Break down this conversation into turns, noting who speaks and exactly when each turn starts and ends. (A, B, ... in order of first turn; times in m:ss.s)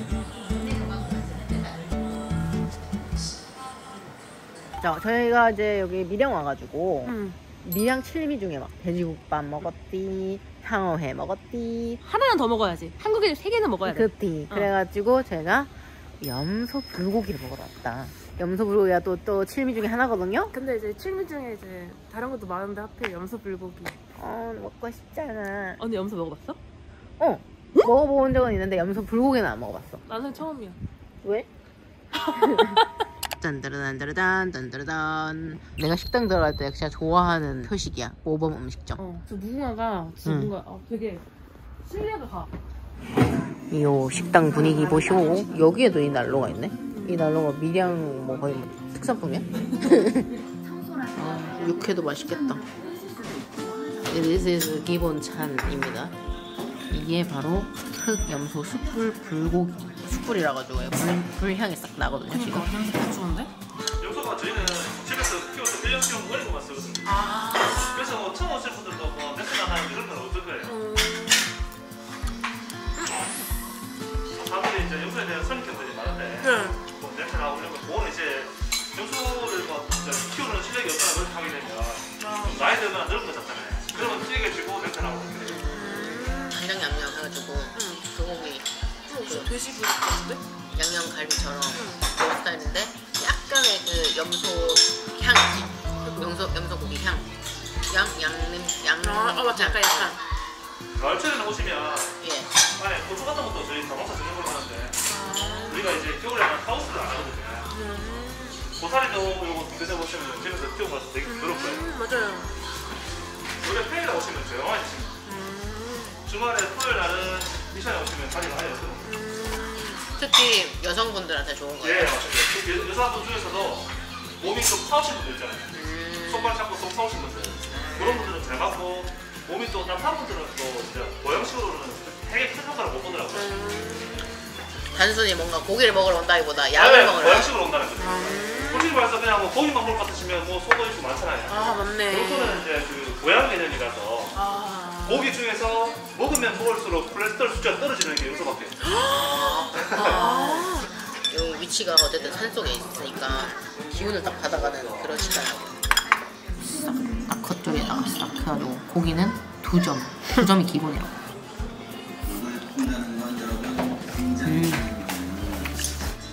0:04.8-0:12.0 A
0:07.0-0:07.4 B
0:12.0-0:14.7 B
0:13.8-0:20.5 A
0:20.5-0:24.0 B
0:24.2-0:25.8 A
0:25.8-0:26.6 B
0:27.2-0:30.0 A
0:30.1-0:30.8 B
0:31.2-0:31.5 A
0:32.3-0:32.8 A
0:33.4-0:39.0 A
0:39.0-0:41.2 B
0:40.2-0:40.5 A
0:41.8-0:42.5 B
0:43.7-0:50.3 A
0:44.6-0:45.4 B
0:46.9-0:47.3 B
0:50.6-0:54.0 B
0:51.1-0:52.6 A
0:54.0-0:56.2 A
0:56.9-1:02.7 A
1:02.3-1:03.5 B
1:04.0-1:10.8 C
1:07.1-1:08.1 B
1:10.6-1:11.4 B
1:14.4-1:25.8 C
1:16.4-1:16.8 B
1:22.2-1:22.7 B
1:23.9-1:24.2 B
1:25.6-1:26.6 B
1:25.8-1:29.5 A
1:27.8-1:28.1 B
1:29.1-1:30.4 B
1:30.7-1:37.3 A
1:31.7-1:32.1 B
1:36.1-1:36.3 B
1:37.9-1:40.2 A
1:39.0-1:40.2 B
1:41.0-1:42.2 C
1:42.2-1:42.5 A
1:42.8-1:45.0 C
1:45.1-1:46.0 B
1:45.7-1:47.7 C
1:47.7-1:48.6 B
1:48.8-1:51.9 C
1:51.2-1:52.6 B
1:53.6-1:55.2 C
1:55.2-1:56.2 B
1:56.2-1:59.1 C
1:59.0-2:00.0 B
2:00.1-2:02.2 A
2:01.8-2:13.6 C
2:05.7-2:06.6 A
2:07.7-2:08.1 A
2:13.3-2:14.3 B
2:14.9-2:17.5 A
2:16.7-2:24.4 C
2:18.0-2:19.0 B
2:21.5-2:22.6 B
2:24.3-2:25.3 B
2:25.0-2:28.8 C
2:28.8-2:30.9 B
2:29.1-2:30.8 A
2:29.8-2:30.2 C
2:31.3-2:35.8 A
2:36.6-2:41.2 A
2:44.4-2:45.0 A